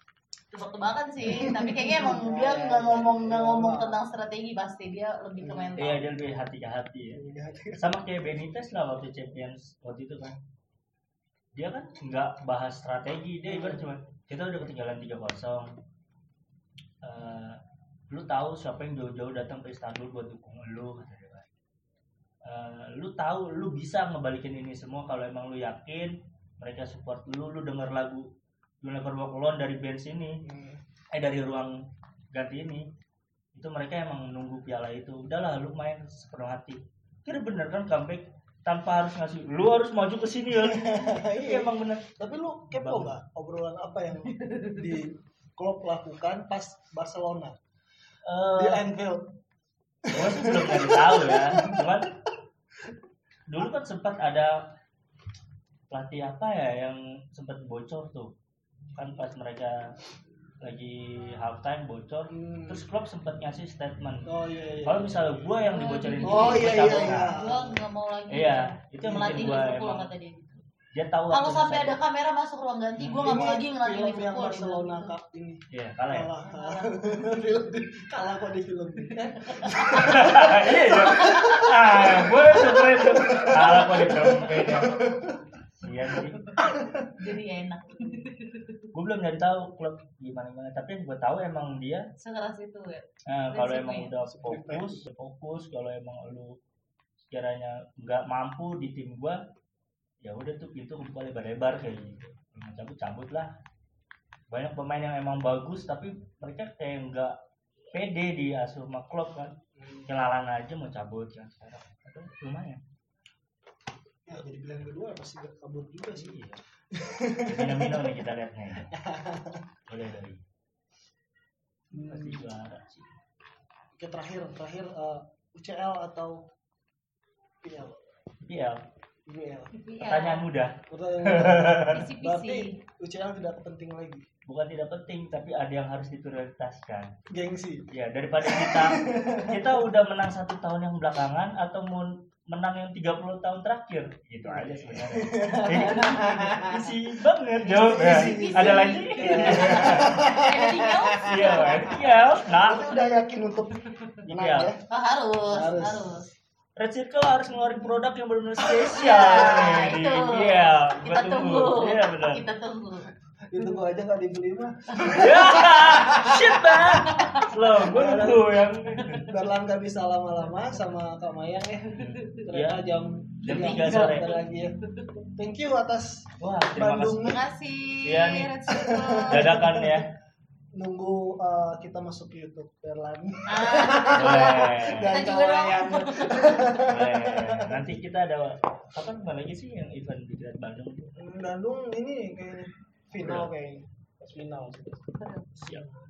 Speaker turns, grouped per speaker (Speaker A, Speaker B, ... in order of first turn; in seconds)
Speaker A: 0.5-6.1, 44.5-44.7, 65.7-70.6, 71.3-75.1, 76.5-77.1, 79.2-82.9, 87.2-88.5, 92.2-94.1, 129.8-130.5, 131.9-132.8, 147.7-152.0, 154.9-156.2, 158.9-163.1, 166.9-167.5, 173.5-174.4, 177.2-179.5, 183.5-184.5, 185.1-186.7
Speaker B: 1.2-1.5, 5.8-7.2, 7.8-10.3, 11.6-15.7, 17.0-17.6, 18.1-21.5, 22.5-28.2, 28.8-30.4, 31.1-31.7, 32.3-32.8, 33.5-42.1, 42.7-43.1, 48.2-48.9, 50.1-52.1, 53.5-54.5, 55.9-58.3, 58.9-59.9, 60.6-64.3, 64.8-67.4, 68.3-70.1, 71.0-72.0, 73.0-73.5, 75.7-76.3, 79.9-84.9, 85.8-86.4, 88.9-92.0, 93.3-96.5, 97.2-99.4, 100.2-103.5, 104.5-107.3, 107.9-109.5, 110.1-112.8, 116.2-116.6, 117.5-118.9, 119.9-120.4, 121.9-123.1, 128.4-128.8, 130.0-132.1, 134.5-137.1, 137.9-150.2, 151.2-153.1, 154.2-154.7, 156.8-162.4, 165.0-169.3, 171.9-172.8, 173.4-174.4, 176.4-177.3, 178.1-178.6, 179.3-180.1, 184.1-185.2, 186.9-191.1, 193.2-193.5, 195.6-195.9
Speaker C: 1.5-4.0, 5.4-6.0, 7.1-7.9, 13.4-13.9, 30.4-30.8, 40.6-47.6, 48.6-49.2, 50.1-51.9, 62.3-62.8, 64.3-65.3, 66.2-67.8, 69.0-69.5, 73.2-85.4, 86.6-87.1, 94.2-95.1, 109.8-110.1, 114.3-116.4, 116.9-118.2, 118.9-119.6, 121.9-122.5, 124.0-126.4, 127.6-127.9, 129.3-129.7, 130.9-134.2, 137.3-137.9, 138.4-139.8, 144.4-146.8, 147.7-151.9, 152.5-154.8, 155.5-156.1, 163.5-166.7, 167.9-168.5, 169.3-174.7, 175.4-177.4, 178.7-180.0, 180.8-188.0, 191.2-195.0